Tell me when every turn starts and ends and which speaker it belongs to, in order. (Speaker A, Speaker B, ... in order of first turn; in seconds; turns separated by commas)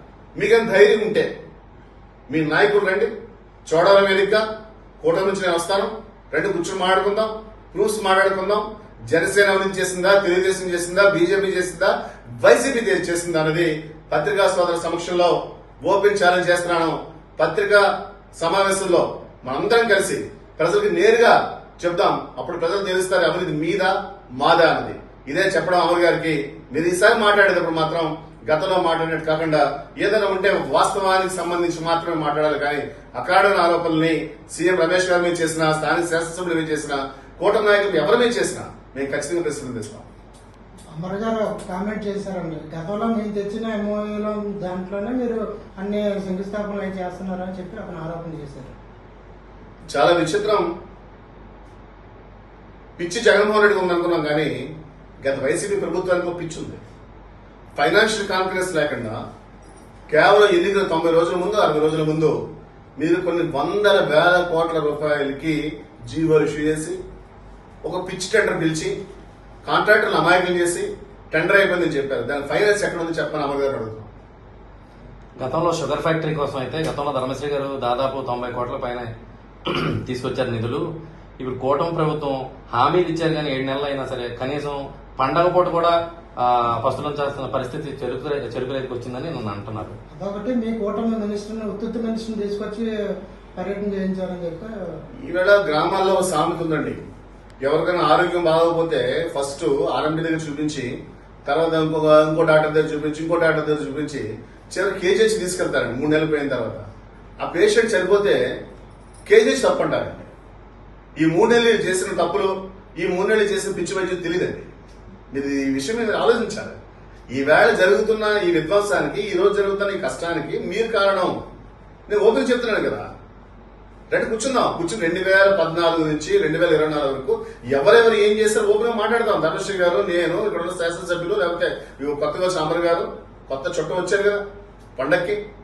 Speaker A: 0.3-1.3, Speaker A: 2.3-3.1, Speaker A: 3.6-4.4, Speaker A: 5.0-40.1, Speaker B: 40.9-48.7, Speaker A: 49.9-50.6, Speaker A: 53.0-54.5, Speaker A: 55.2-56.8, Speaker A: 57.8-59.2, Speaker A: 60.1-62.3, Speaker A: 63.0-67.0, Speaker A: 67.8-68.9, Speaker A: 69.6-74.1, Speaker C: 75.4-79.1, Speaker C: 79.7-80.8, Speaker C: 81.4-89.9, Speaker B: 90.2-92.9, Speaker B: 93.5-94.7, Speaker A: 95.2-97.0, Speaker A: 97.6-100.9, Speaker A: 101.5-106.8, Speaker A: 107.4-108.4, Speaker A: 109.2-110.3, Speaker A: 111.2-114.7, Speaker A: 115.3-116.8, Speaker A: 117.3-121.4, Speaker A: 122.1-123.1, Speaker A: 124.1-134.4, Speaker A: 135.0-135.4